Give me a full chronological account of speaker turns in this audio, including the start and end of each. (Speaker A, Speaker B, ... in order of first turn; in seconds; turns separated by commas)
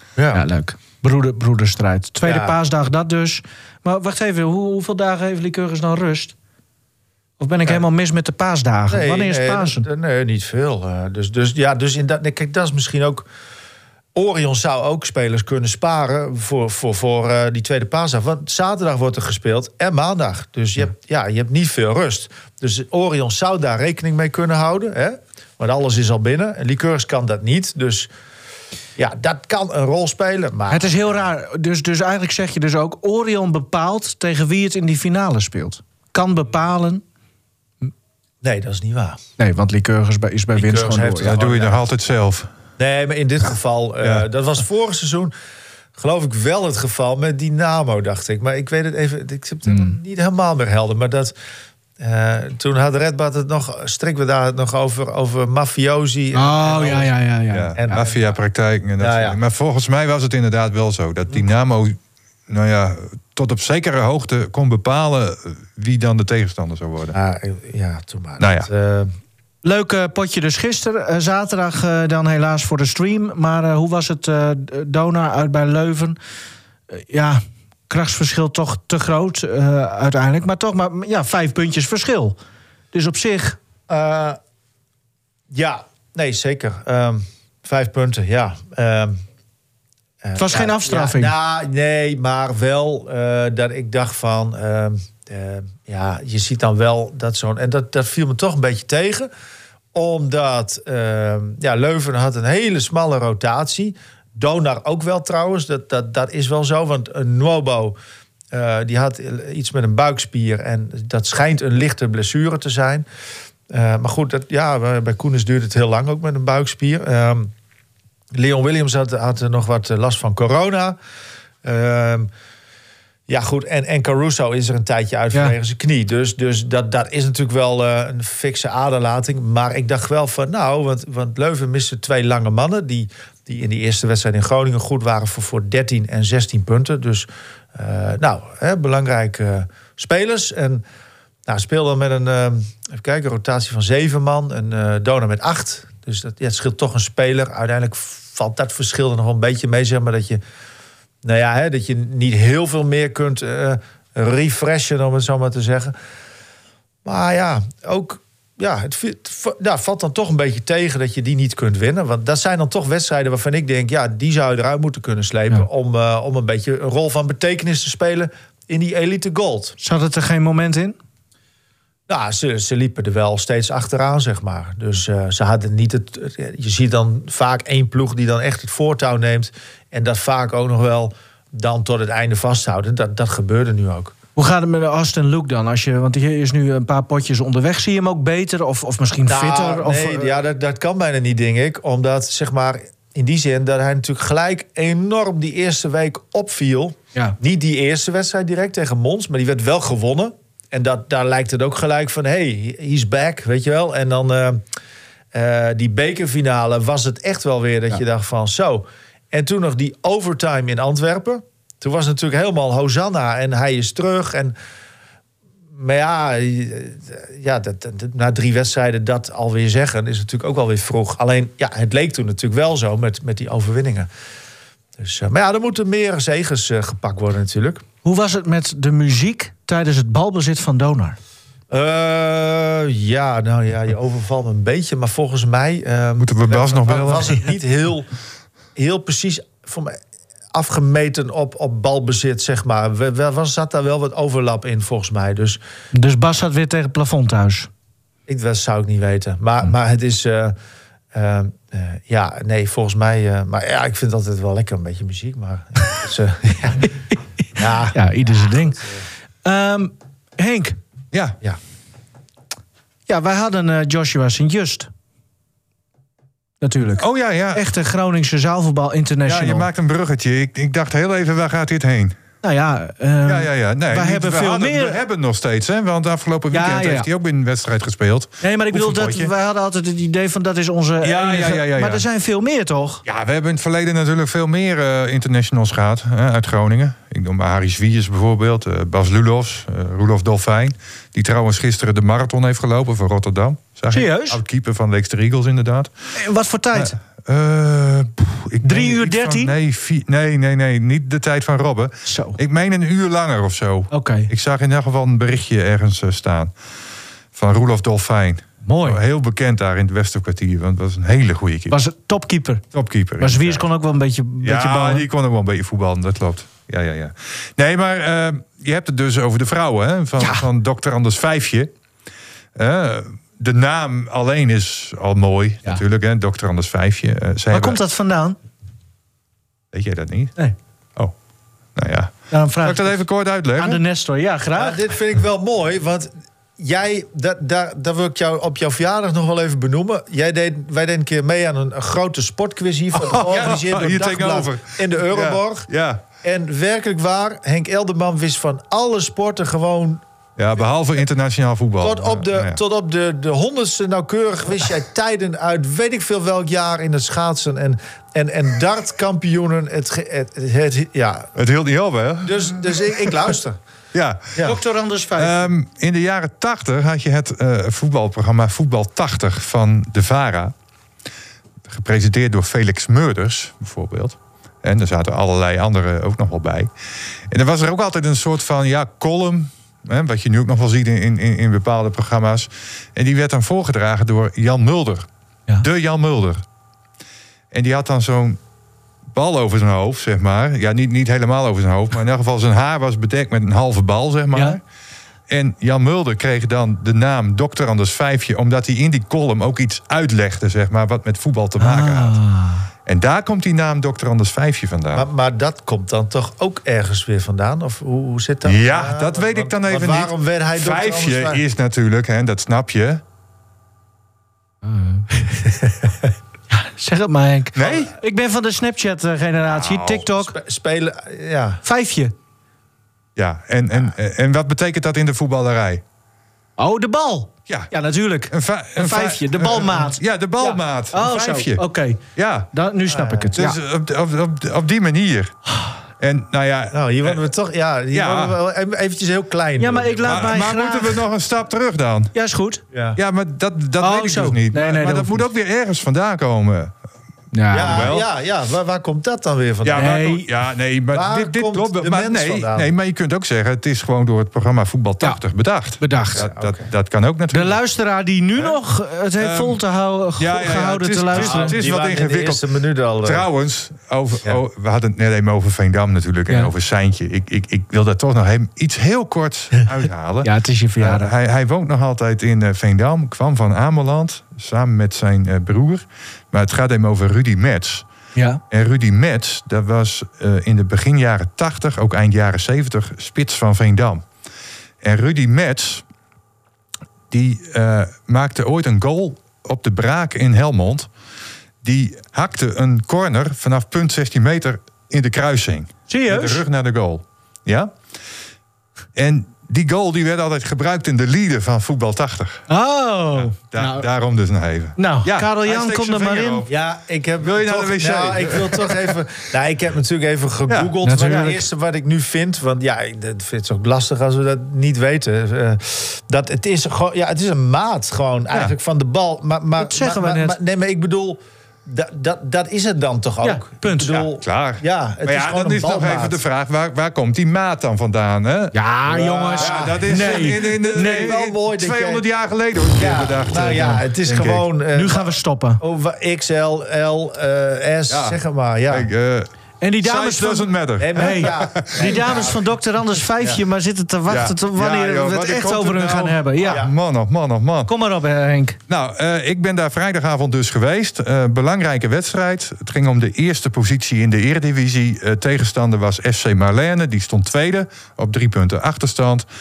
Speaker A: 0.2-0.4, Speaker B: 0.3-6.3, Speaker A: 2.2-2.5, Speaker B: 7.4-9.8, Speaker A: 8.9-13.2, Speaker A: 14.1-28.1, Speaker A: 29.0-31.2, Speaker B: 30.7-37.0, Speaker A: 38.4-39.2, Speaker B: 39.4-41.3, Speaker A: 40.5-41.8, Speaker C: 41.2-42.5, Speaker A: 42.8-45.3, Speaker A: 46.0-51.3, Speaker B: 49.7-50.0, Speaker A: 52.0-57.1, Speaker B: 56.3-57.9, Speaker C: 57.5-67.1, Speaker A: 57.8-58.4, Speaker A: 59.0-59.4, Speaker A: 67.1-69.1, Speaker C: 68.4-68.7, Speaker B: 69.6-76.2, Speaker B: 76.9-82.4, Speaker B: 82.9-83.6, Speaker A: 83.9-84.4, Speaker A: 85.5-89.2, Speaker A: 90.2-99.3, Speaker B: 90.4-91.3, Speaker A: 99.9-107.9, Speaker A: 108.5-113.0, Speaker A: 113.7-117.5, Speaker A: 118.3-121.0, Speaker A: 121.6-122.3, Speaker A: 123.3-140.8, Speaker A: 141.5-150.4, Speaker A: 151.2-155.9, Speaker A: 157.0-169.8, Speaker B: 169.8-170.9, Speaker A: 172.1-184.1, Speaker B: 184.3-190.3, Speaker A: 189.2-204.6, Speaker A: 205.3-214.5, Speaker A: 215.8-224.1, Speaker A: 225.0-227.8, Speaker B: 228.0-231.2, Speaker A: 231.7-238.1, Speaker C: 236.2-237.4, Speaker A: 238.8-240.0, Speaker A: 240.5-245.6, Speaker B: 245.9-247.7, Speaker A: 248.3-250.5, Speaker A: 251.1-256.9, Speaker A: 257.6-258.6, Speaker B: 257.9-258.8, Speaker B: 259.4-260.8, Speaker C: 261.1-261.4, Speaker B: 263.1-264.9, Speaker B: 266.6-269.7, Speaker C: 266.8-267.6, Speaker C: 269.2-272.2, Speaker B: 272.4-275.0, Speaker C: 273.2-279.3, Speaker B: 276.5-277.1, Speaker B: 278.4-283.0, Speaker C: 281.0-282.0, Speaker C: 283.1-295.9, Speaker B: 293.9-294.4, Speaker B: 296.1-297.0, Speaker C: 296.7-306.5, Speaker B: 298.6-299.5, Speaker B: 302.1-302.4, Speaker B: 303.9-304.3, Speaker C: 307.3-311.8, Speaker B: 308.6-309.0, Speaker B: 311.7-312.6, Speaker C: 312.7-313.7, Speaker B: 313.2-315.1, Speaker C: 314.4-321.7, Speaker B: 320.2-320.4, Speaker C: 322.6-327.8, Speaker B: 327.5-328.4, Speaker C: 329.7-330.3, Speaker C: 331.7-333.8, Speaker B: 332.3-333.0, Speaker B: 333.6-334.9, Speaker A: 334.6-345.7, Speaker C: 342.9-346.0, Speaker A: 346.2-350.0, Speaker C: 350.4-352.6, Speaker A: 351.8-361.3, Speaker C: 361.3-363.1, Speaker A: 362.2-363.6, Speaker C: 363.9-364.4, Speaker B: 364.4-365.5, Speaker C: 365.1-370.5, Speaker C: 371.6-376.7, Speaker C: 377.3-385.1, Speaker C: 385.6-386.4, Speaker C: 387.5-388.4, Speaker C: 389.1-394.6, Speaker C: 395.3-402.2, Speaker B: 401.6-402.7, Speaker C: 402.8-405.1, Speaker A: 404.9-411.4, Speaker C: 408.4-413.0, Speaker B: 414.6-415.4, Speaker A: 415.6-415.9, Speaker B: 416.5-420.4, Speaker C: 417.5-417.9, Speaker C: 419.5-420.1, Speaker A: 420.2-421.6, Speaker B: 421.6-422.1, Speaker C: 423.1-425.8, Speaker B: 426.6-430.0, Speaker C: 428.3-431.6, Speaker B: 430.9-432.0, Speaker C: 432.1-432.5, Speaker B: 432.5-433.6, Speaker A: 432.9-433.4, Speaker C: 433.4-435.4, Speaker C: 436.0-437.2, Speaker A: 436.7-440.3, Speaker C: 437.9-438.4, Speaker B: 439.6-441.0, Speaker C: 440.0-442.1, Speaker B: 442.1-442.6, Speaker A: 442.7-443.0, Speaker C: 442.9-446.7, Speaker B: 443.8-445.3, Speaker B: 447.3-447.9, Speaker A: 447.5-450.0, Speaker C: 447.6-448.1, Speaker C: 449.6-457.6, Speaker B: 449.7-450.3, Speaker A: 450.9-452.7, Speaker B: 455.8-456.3, Speaker A: 456.1-456.7, Speaker B: 457.3-461.6, Speaker C: 459.2-459.6, Speaker C: 460.2-462.4, Speaker A: 461.1-463.3, Speaker C: 463.0-477.9, Speaker B: 470.2-471.1, Speaker B: 478.1-478.4, Speaker C: 478.5-484.1, Speaker C: 484.8-485.8, Speaker C: 487.1-490.9, Speaker C: 491.6-497.8, Speaker B: 495.9-496.4, Speaker C: 498.9-502.4, Speaker B: 502.5-503.9, Speaker C: 503.1-506.5, Speaker B: 504.8-506.5, Speaker A: 506.5-526.2, Speaker C: 507.2-508.9, Speaker B: 510.8-511.4, Speaker B: 519.6-520.4, Speaker B: 523.2-524.0, Speaker C: 524.1-534.5, Speaker B: 528.5-531.2, Speaker A: 528.9-532.0, Speaker A: 532.8-538.9, Speaker B: 534.7-535.6, Speaker C: 537.9-542.0, Speaker B: 539.6-546.6, Speaker A: 540.8-542.4, Speaker C: 544.1-547.7, Speaker A: 546.4-546.7, Speaker B: 547.7-548.6, Speaker C: 548.7-559.2